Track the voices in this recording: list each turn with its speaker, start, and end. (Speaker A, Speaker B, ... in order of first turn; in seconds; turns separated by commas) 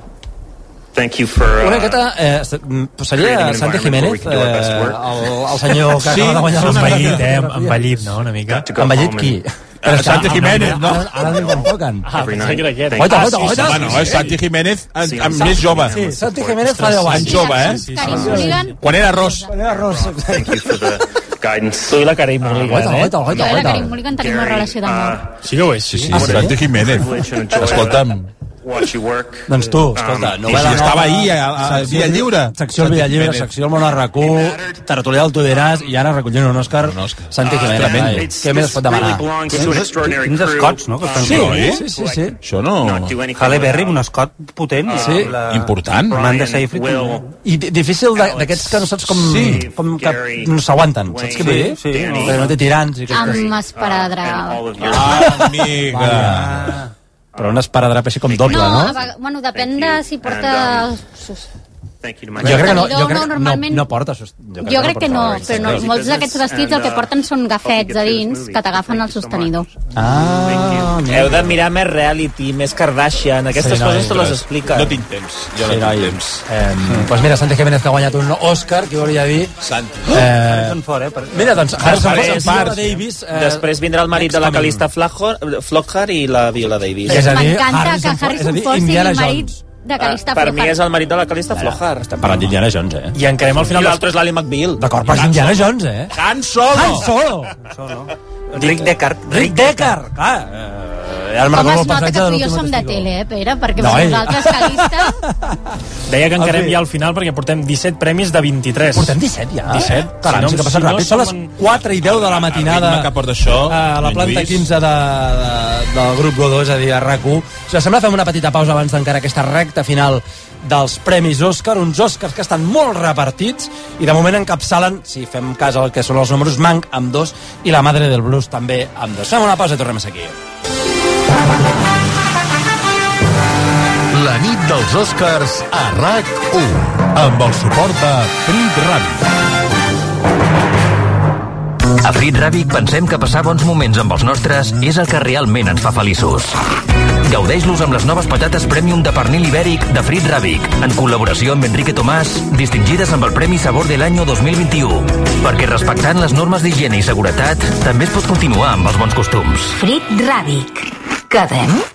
Speaker A: 0.9-2.0, Speaker B: 1.5-8.0, Speaker A: 3.1-5.5, Speaker C: 5.9-7.3, Speaker D: 6.6-8.7, Speaker A: 8.5-9.4, Speaker B: 8.7-12.1, Speaker C: 9.8-11.2, Speaker A: 10.1-14.4, Speaker D: 12.0-14.3, Speaker B: 12.9-14.1, Speaker C: 13.4-16.0, Speaker A: 14.9-17.2, Speaker B: 15.7-20.6, Speaker D: 16.8-18.6, Speaker C: 16.9-19.4, Speaker E: 17.2-19.5, Speaker A: 19.6-22.9, Speaker F: 21.8-23.2, Speaker B: 22.6-24.0, Speaker E: 23.3-25.2, Speaker A: 23.4-25.4, Speaker D: 25.4-26.3, Speaker C: 25.9-28.3, Speaker B: 26.1-26.6, Speaker A: 26.2-31.1, Speaker B: 29.5-39.8, Speaker C: 30.4-33.5, Speaker C: 36.8-38.4, Speaker A: 37.4-44.0, Speaker G: 39.5-41.8, Speaker C: 41.2-41.8, Speaker B: 41.2-42.3, Speaker C: 42.4-43.2, Speaker G: 43.3-47.3, Speaker A: 44.9-45.3, Speaker B: 44.9-45.3, Speaker C: 45.0-46.2, Speaker A: 46.1-47.3, Speaker B: 47.4-53.5, Speaker A: 48.1-48.9, Speaker C: 49.1-49.7, Speaker A: 49.5-52.5, Speaker G: 51.3-52.6, Speaker E: 53.1-54.6, Speaker A: 53.1-55.5, Speaker C: 54.8-56.8, Speaker B: 55.0-56.8, Speaker B: 57.4-59.0, Speaker A: 58.3-60.9, Speaker E: 58.5-61.4, Speaker A: 62.0-63.3, Speaker B: 62.4-65.9, Speaker E: 62.6-63.9, Speaker E: 64.6-69.7, Speaker A: 65.4-69.6, Speaker B: 69.9-71.6, Speaker A: 70.2-71.0, Speaker F: 71.1-75.0, Speaker B: 73.5-74.2, Speaker C: 74.0-76.4, Speaker B: 75.6-79.5, Speaker C: 79.6-80.3, Speaker B: 80.0-80.8, Speaker G: 80.2-81.8, Speaker B: 81.3-84.8, Speaker C: 81.7-83.0, Speaker F: 82.1-82.7, Speaker F: 83.3-87.5, Speaker B: 87.1-89.6, Speaker E: 87.1-90.8, Speaker F: 90.0-92.1, Speaker B: 91.5-93.2, Speaker D: 93.1-94.1, Speaker F: 93.6-94.8, Speaker B: 94.8-96.1, Speaker C: 95.1-97.1, Speaker B: 96.7-97.5, Speaker G: 97.6-100.0, Speaker B: 99.3-103.1, Speaker E: 101.5-105.1, Speaker B: 103.8-105.6, Speaker D: 106.1-109.1, Speaker B: 106.4-106.8, Speaker B: 108.9-113.1, Speaker D: 109.7-111.5, Speaker C: 111.8-114.7, Speaker B: 113.7-130.4, Speaker H: 134.1-139.2, Speaker I: 142.0-146.6, Speaker I: 147.2-159.9